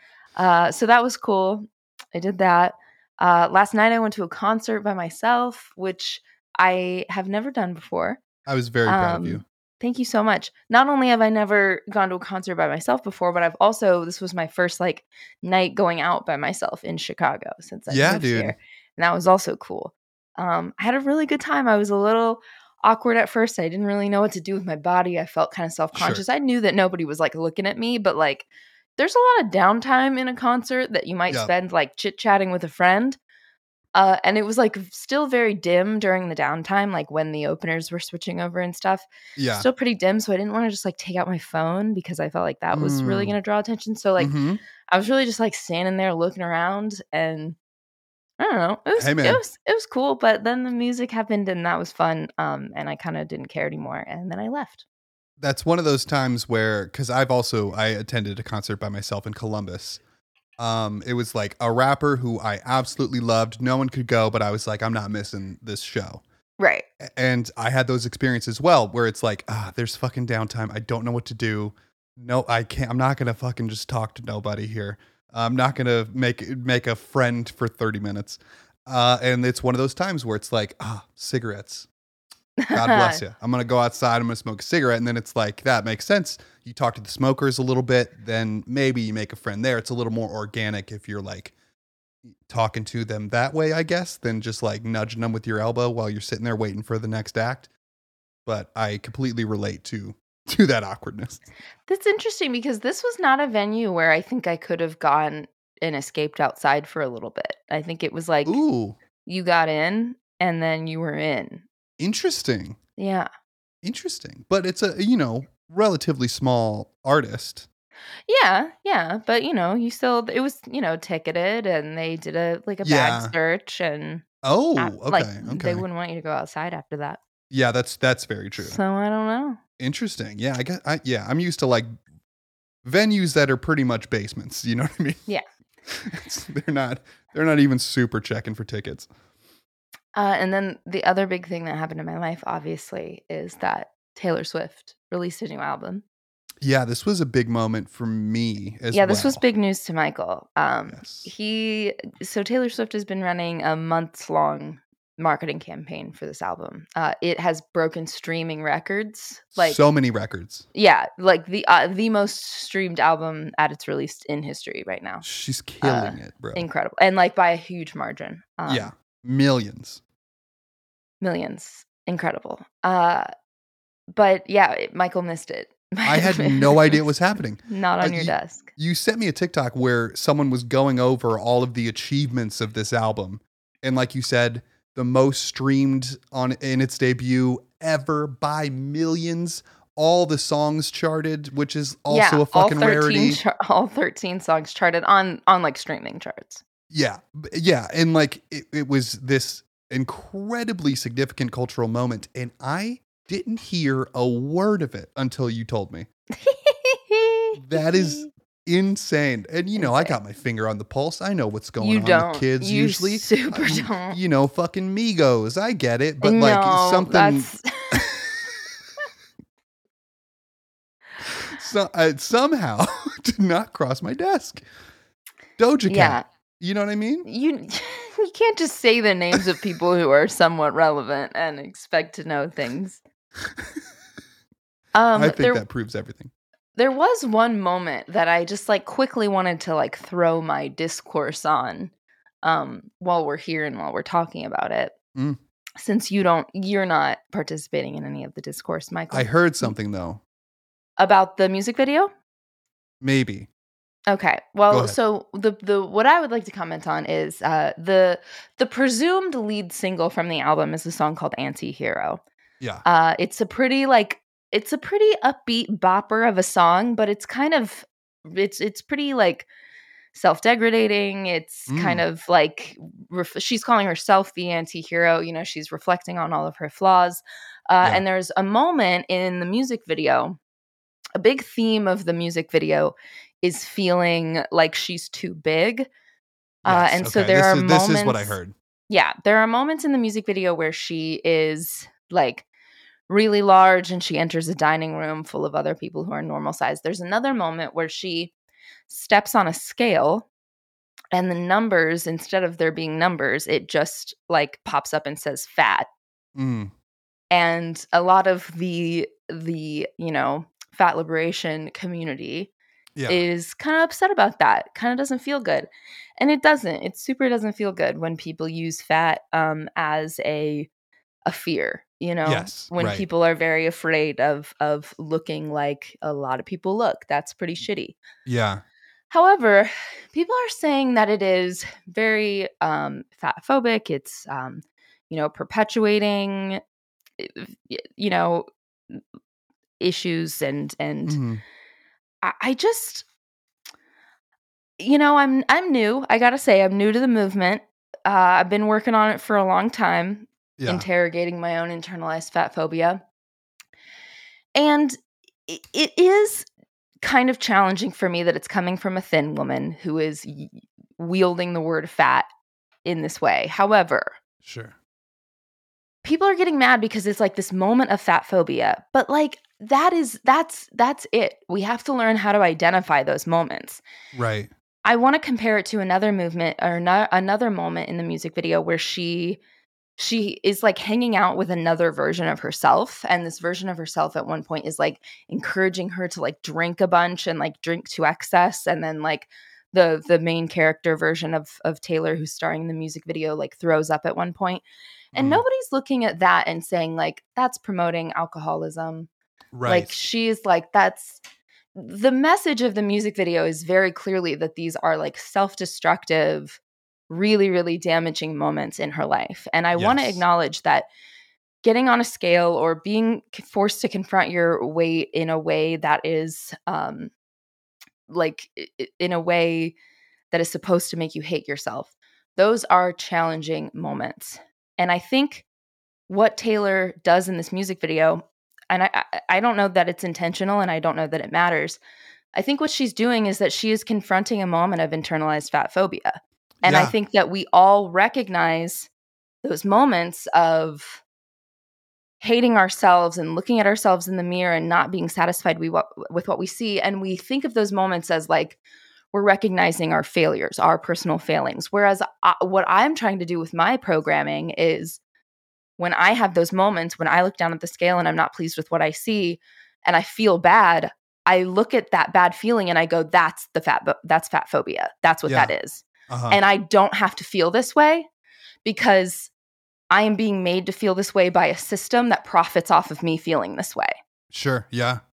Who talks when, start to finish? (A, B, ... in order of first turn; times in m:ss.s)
0:00.4-0:08.2 A
0:08.5-0:09.4 B
0:08.9-0:28.5 A
0:17.9-0:18.6 B
0:25.9-0:26.2 B
0:29.0-0:33.2 A
0:34.0-0:44.3 A
0:39.4-0:39.7 B
0:42.7-0:43.4 B
0:44.2-0:44.6 B
0:44.9-0:47.6 A
0:48.4-0:54.8 A
0:49.0-0:49.4 B
0:55.4-1:00.0 B
1:00.6-1:06.2 B
1:06.6-1:06.9 A
1:07.0-1:21.9 B
1:22.6-1:23.2 A
1:22.7-1:31.5 B
1:32.4-1:37.7 B
1:38.5-1:41.4 B
1:41.9-1:48.6 A
1:48.4-1:49.0 B
1:49.3-1:51.6 A
1:52.0-1:52.8 B
1:53.0-1:53.3 A
1:53.8-1:57.7 B
1:58.3-2:04.2 A
2:02.8-2:03.3 B
2:04.4-2:05.8 B
2:04.8-2:07.2 A
2:07.5-2:08.8 B
2:08.6-2:09.6 A
2:09.8-2:11.9 B
2:12.8-2:15.2 B
2:15.9-2:19.1 B
2:20.2-2:26.0 A
2:26.6-2:29.4 B
2:28.9-2:39.8 A
2:30.9-2:31.3 B
2:39.6-2:40.7 B
2:40.7-2:45.2 A
2:45.2-2:46.6 B
2:45.8-2:48.9 A
2:48.7-2:50.0 B
2:51.2-2:53.3 A
2:54.1-2:57.0 A
2:56.0-3:13.4 B
2:57.7-2:58.7 A
3:12.1-3:16.6 A
3:16.9-3:26.1 B
3:26.4-3:28.3 A
3:27.6-3:38.3 B
3:29.8-3:30.2 A
3:31.8-3:34.2 A
3:36.2-3:38.2 A
3:41.2-3:44.6 B
3:45.6-3:47.3 B
3:45.9-3:46.2 A
3:47.2-3:53.0 A
3:55.0-3:55.6 A
3:55.2-3:56.3 B
3:56.8-4:01.9 A
4:02.4-4:05.0 A
4:05.8-4:09.7 A
4:09.1-4:10.2 B
4:11.0-4:12.1 A
4:13.0-4:13.5 B
4:14.1-4:22.2 A
4:14.7-4:15.0 B
4:22.8-4:29.5 A
4:30.1-4:40.4 A
4:31.7-4:32.0 B
4:41.2-4:45.9 A
4:46.6-4:48.4 A
4:46.6-4:48.5 B
4:48.9-4:52.4 A
4:53.1-4:58.3 A
4:58.9-5:00.3 A
5:01.1-5:05.9 A
5:06.4-5:06.7 B
5:07.3-5:12.5 A
5:13.0-5:13.2 B
5:13.1-5:20.7 A
5:21.3-5:28.0 A
5:22.2-5:23.0 B
5:28.3-5:28.6 B
5:29.1-5:36.6 A
5:37.2-5:39.0 A
5:39.8-5:41.2 A
5:41.1-5:41.4 B
5:42.2-5:43.1 A
5:44.8-5:53.0 A
5:50.6-5:50.9 B
5:54.6-5:56.5 A
5:57.0-6:02.3 A
6:02.8-6:04.2 A
6:04.4-6:04.8 B
6:06.0-6:13.8 A
6:14.1-6:14.5 B
6:14.8-6:19.4 A
6:20.0-6:39.1 A
6:35.2-6:35.4 B
6:39.5-6:40.0 B
6:39.6-6:41.2 A
6:41.8-6:50.9 A
6:49.8-6:50.2 B
6:51.6-6:57.1 A
6:58.1-6:59.8 A
7:00.3-7:05.5 A
7:06.1-7:11.8 A
7:12.3-7:18.9 A
7:16.6-7:16.9 B
7:19.4-7:21.0 A
7:22.2-7:28.6 A
7:29.1-7:35.0 A
7:35.8-7:48.1 A
7:45.3-7:45.5 B
7:46.1-7:46.4 B
7:48.6-7:49.3 A
7:49.9-7:54.0 A
7:54.3-7:55.0 B